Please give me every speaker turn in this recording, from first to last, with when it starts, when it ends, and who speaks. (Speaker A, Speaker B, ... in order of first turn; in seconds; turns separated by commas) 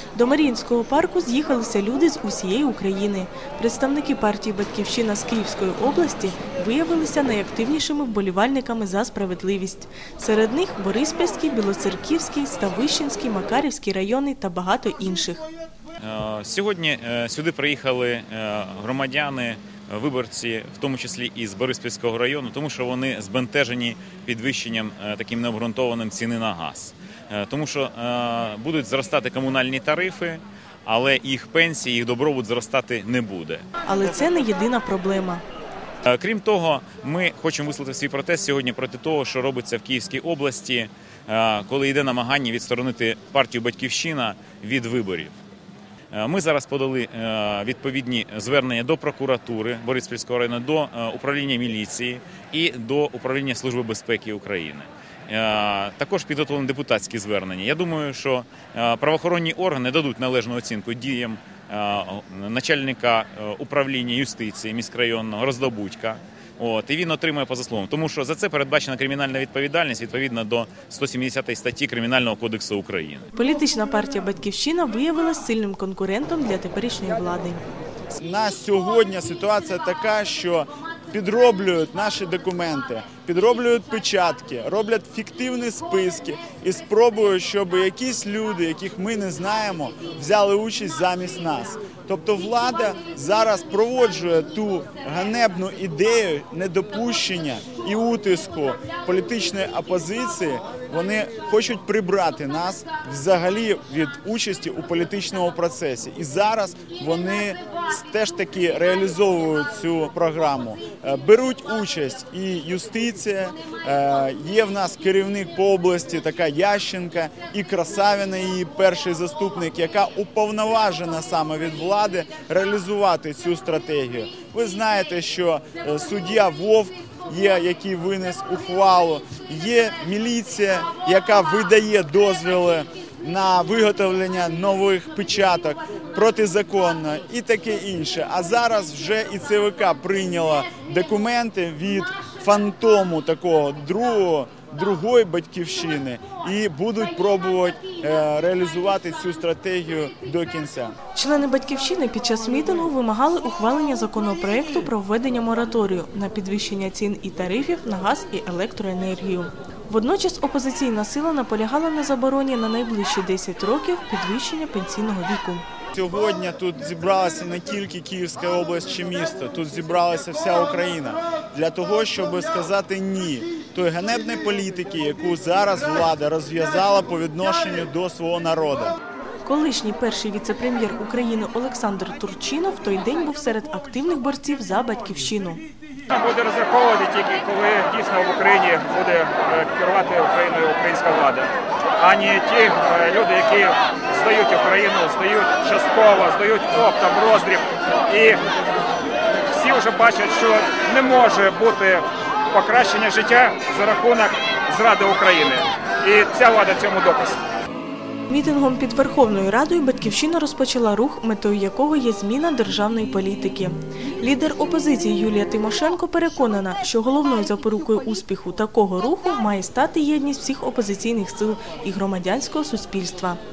Speaker A: 0.1-15.4, Speaker B: 16.0-33.6, Speaker A: 33.9-35.4, Speaker B: 36.0-45.4, Speaker B: 46.1-73.3, Speaker A: 73.3-77.6, Speaker C: 78.1-150.9, Speaker A: 151.1-165.6, Speaker C: 165.9-178.9, Speaker A: 179.4-185.6, Speaker D: 186.1-198.4, Speaker D: 199.5-207.4, Speaker A: 208.3-223.4